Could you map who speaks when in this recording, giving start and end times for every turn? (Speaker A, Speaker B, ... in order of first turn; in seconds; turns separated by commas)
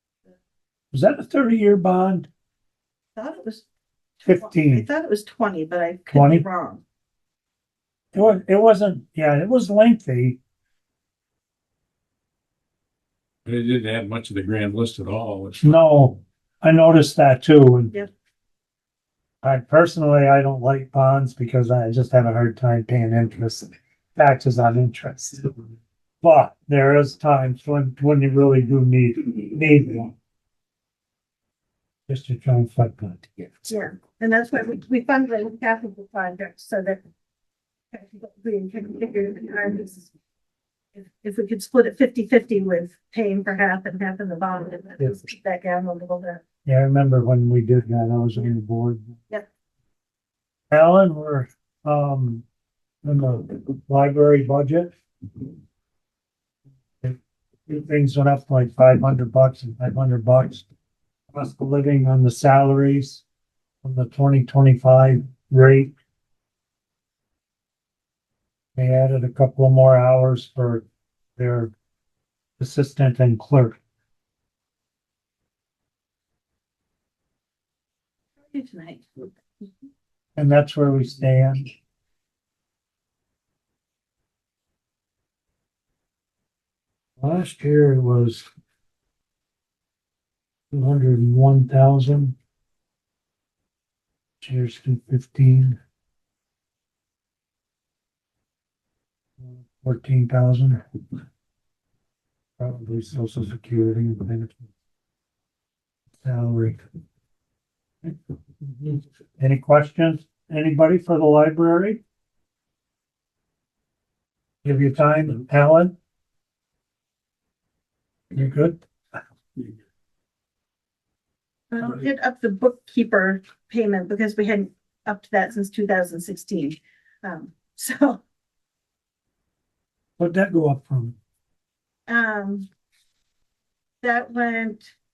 Speaker A: 0.9-2.3, Speaker B: 3.2-3.6, Speaker B: 4.2-6.8, Speaker A: 4.3-4.9, Speaker A: 6.1-6.5, Speaker A: 8.1-10.4, Speaker C: 13.5-15.6, Speaker A: 15.6-17.9, Speaker A: 19.4-25.6, Speaker A: 26.2-30.1, Speaker A: 32.1-33.7, Speaker B: 33.7-37.0, Speaker B: 37.9-40.1, Speaker B: 40.9-46.4, Speaker A: 46.6-49.1, Speaker A: 50.7-52.5, Speaker A: 53.0-54.9, Speaker A: 57.0-60.6, Speaker A: 61.3-63.2, Speaker A: 63.8-65.9, Speaker A: 68.8-70.8, Speaker A: 71.4-71.7, Speaker A: 72.6-73.8, Speaker B: 78.4-79.7, Speaker A: 80.4-81.7, Speaker A: 87.2-88.5, Speaker A: 90.7-92.3, Speaker A: 94.4-95.8, Speaker A: 99.4-100.8, Speaker A: 102.6-104.7, Speaker A: 106.2-106.8, Speaker A: 108.8-112.0, Speaker A: 114.6-115.9, Speaker A: 118.3-118.8, Speaker B: 121.7-128.2, Speaker A: 130.2-131.2, Speaker B: 132.1-132.7, Speaker B: 134.0-134.9